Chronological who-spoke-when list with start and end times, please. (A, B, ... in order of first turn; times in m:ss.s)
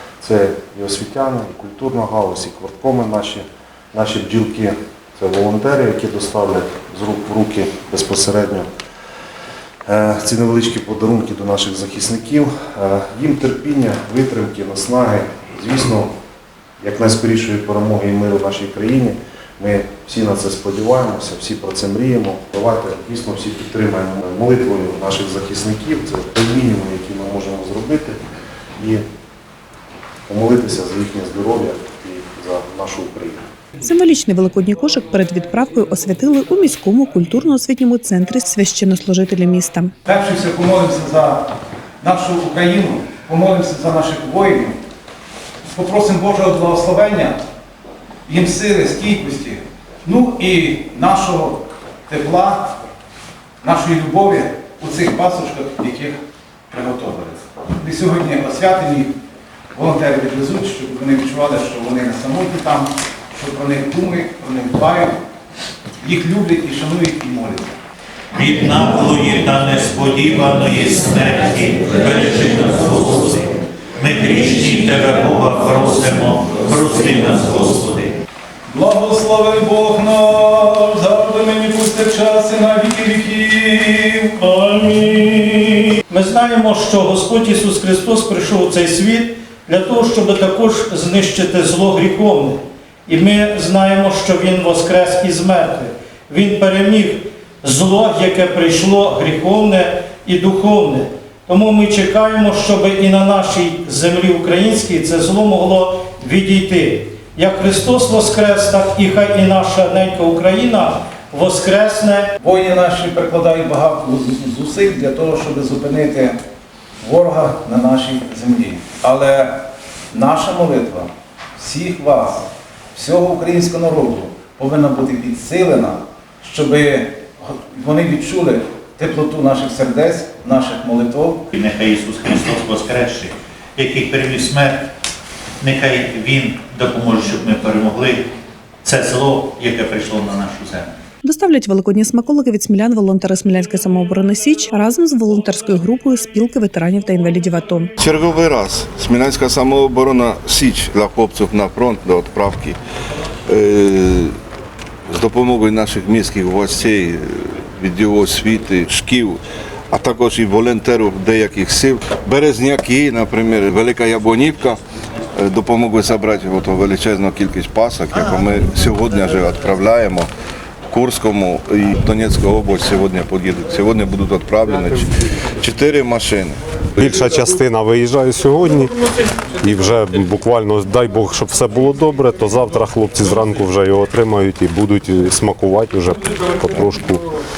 0:00.2-0:08.7 A
0:09.9-0:16.1 A
0:16.8-0:28.2 A
0:28.8-0:29.0 A
0:30.3-0:33.4 A
0:33.8-0:39.9 B
0:40.1-0:41.5 C
0:42.0-0:44.8 C
0:45.7-0:47.4 C
0:48.3-0:52.9 C
0:53.6-0:56.2 C
0:56.7-0:59.1 C
0:59.7-1:05.2 C
1:06.0-1:07.8 C
1:08.3-1:18.1 D
1:18.7-1:24.3 C
1:24.4-1:52.3 E
1:52.4-1:56.4 C
1:57.0-2:11.5 C
2:11.5-2:14.9 D
2:15.6-2:18.2 D
2:18.8-2:20.9 D
2:21.2-2:27.9 B
2:28.0-2:32.8 F
2:33.5-2:34.4 F
2:35.1-2:44.8 F
2:45.4-2:50.3 F
2:50.9-2:56.6 F
2:57.0-2:58.9 G
2:59.6-3:07.2 G